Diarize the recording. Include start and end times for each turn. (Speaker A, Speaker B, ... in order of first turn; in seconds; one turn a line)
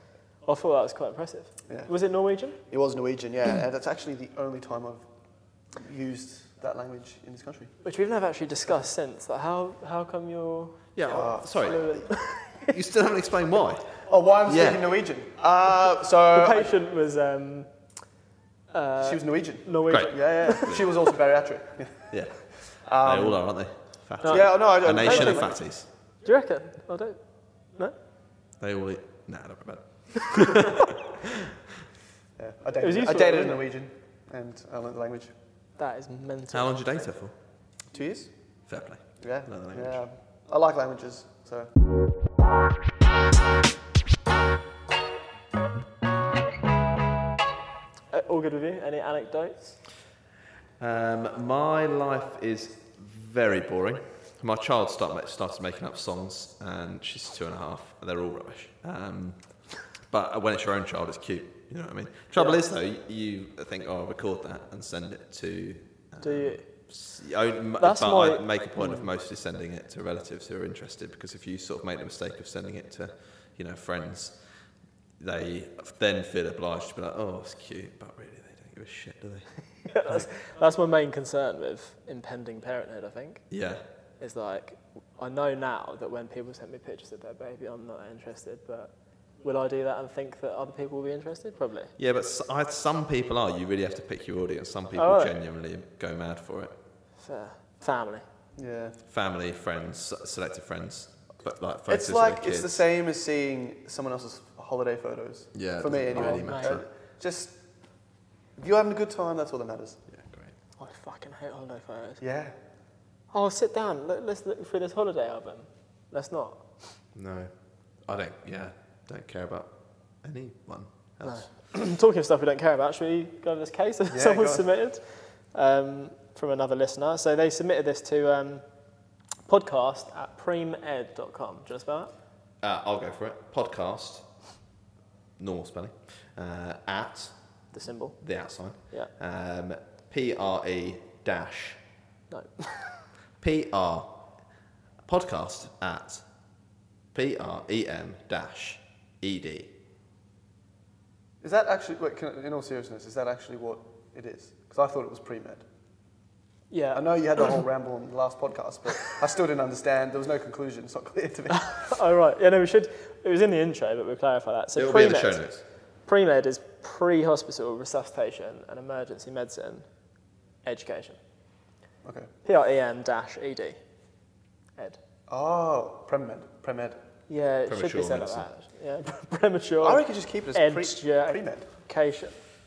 Speaker A: 0.4-2.6
Speaker B: 2.6-5.1
Speaker B: 5.7-7.7
Speaker A: 7.8-12.7
Speaker C: 10.9-14.9
Speaker B: 11.1-11.5
Speaker B: 14.1-16.7
Speaker A: 16.3-17.7
Speaker A: 18.7-20.8
Speaker B: 19.0-22.1
Speaker C: 19.9-20.8
Speaker C: 22.1-25.9
Speaker B: 22.8-23.4
Speaker A: 24.2-25.5
Speaker B: 24.2-25.6
Speaker A: 26.2-27.2
Speaker C: 28.6-31.3
Speaker B: 32.4-35.3
Speaker A: 32.8-33.6
Speaker A: 35.8-36.8
Speaker C: 36.5-37.3
Speaker B: 37.9-38.3
Speaker C: 38.7-40.0
Speaker B: 39.2-41.7
Speaker A: 48.1-49.8
Speaker C: 50.8-74.4
Speaker A: 62.3-62.6
Speaker A: 66.2-66.6
Speaker A: 67.8-69.1
Speaker C: 75.2-80.2
Speaker A: 79.9-83.4
Speaker C: 83.5-83.8
Speaker A: 84.2-91.9
Speaker C: 92.0-96.7
Speaker A: 95.0-95.3
Speaker A: 97.2-98.2
Speaker B: 98.6-99.0
Speaker C: 99.1-102.8
Speaker B: 101.9-107.6
Speaker C: 105.5-106.8
Speaker A: 106.1-106.8
Speaker B: 108.5-110.0
Speaker C: 110.1-110.5
Speaker A: 110.8-112.2
Speaker B: 112.2-112.6
Speaker A: 113.3-117.0
Speaker C: 117.1-117.5
Speaker C: 118.0-121.5
Speaker A: 121.2-128.6
Speaker B: 124.1-124.7
Speaker A: 129.4-132.1
Speaker C: 132.6-134.5
Speaker C: 135.4-141.8
Speaker A: 137.7-139.1
Speaker A: 142.3-143.1
Speaker C: 143.4-144.4
Speaker C: 145.0-146.2
Speaker C: 147.1-149.7
Speaker B: 151.4-155.6
Speaker A: 156.7-157.6
Speaker B: 156.9-161.9
Speaker A: 161.5-165.4
Speaker C: 164.8-165.6
Speaker A: 166.1-169.9
Speaker A: 170.6-171.2
Speaker B: 172.0-172.3
Speaker A: 172.4-173.8
Speaker B: 175.3-177.0
Speaker A: 177.3-182.4
Speaker C: 177.7-178.5
Speaker B: 179.8-181.7